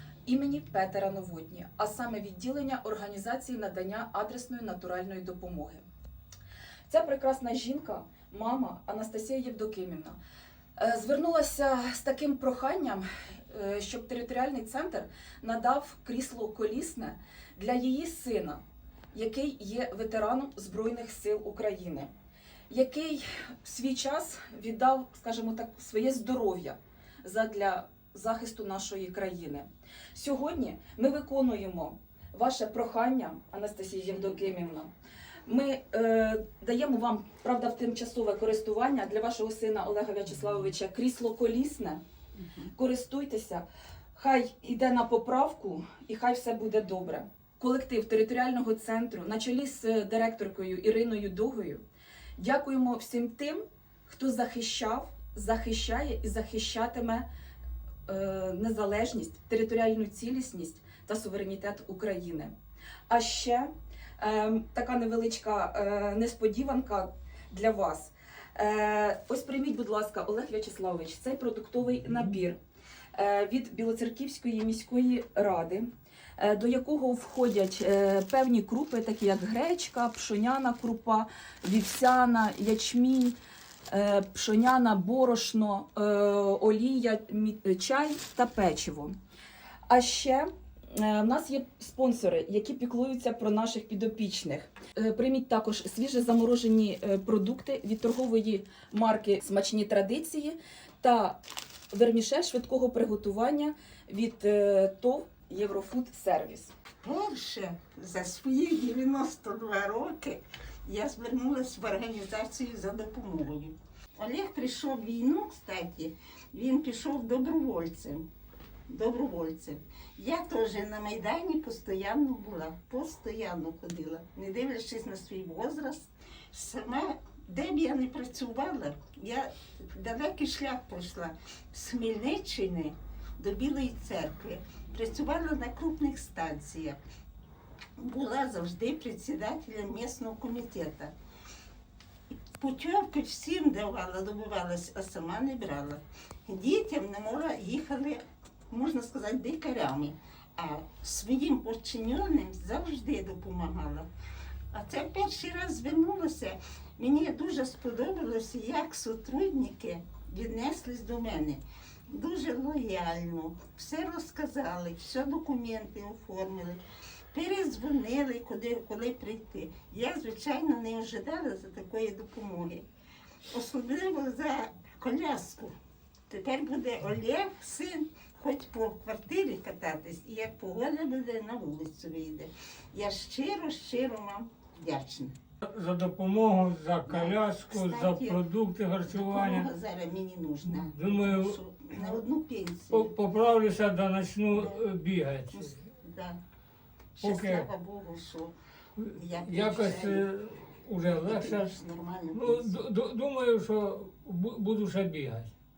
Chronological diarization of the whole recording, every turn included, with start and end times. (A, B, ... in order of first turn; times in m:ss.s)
0:00.2-0:05.8 A
0:06.9-0:10.2 A
0:10.8-0:18.6 A
0:19.1-0:22.1 A
0:22.7-0:34.9 A
0:35.4-0:42.0 A
0:42.4-0:42.7 B
0:42.7-0:43.6 A
0:44.1-0:51.8 A
0:52.4-0:57.2 A
0:58.1-1:02.5 A
1:03.1-1:12.6 A
1:13.1-1:23.4 A
1:23.9-1:29.2 A
1:29.9-1:41.4 A
1:41.9-1:46.7 A
1:47.0-1:58.2 B
1:58.9-2:17.0 B
2:18.0-2:21.1 B
2:22.6-2:34.1 B
2:34.7-2:46.8 B
2:47.3-2:52.8 B
2:53.5-2:55.7 B
2:56.3-3:05.3 B
3:05.6-3:09.7 C
3:07.0-3:08.4 B
3:09.1-3:13.1 B
3:10.7-3:12.1 C
3:12.9-3:15.8 C
3:14.5-3:14.8 B
3:15.5-3:16.4 B
3:17.2-3:18.5 B
3:17.2-3:17.7 C
3:19.0-3:21.8 C
3:19.1-3:20.2 B
3:21.0-3:22.7 B
3:22.3-3:25.5 C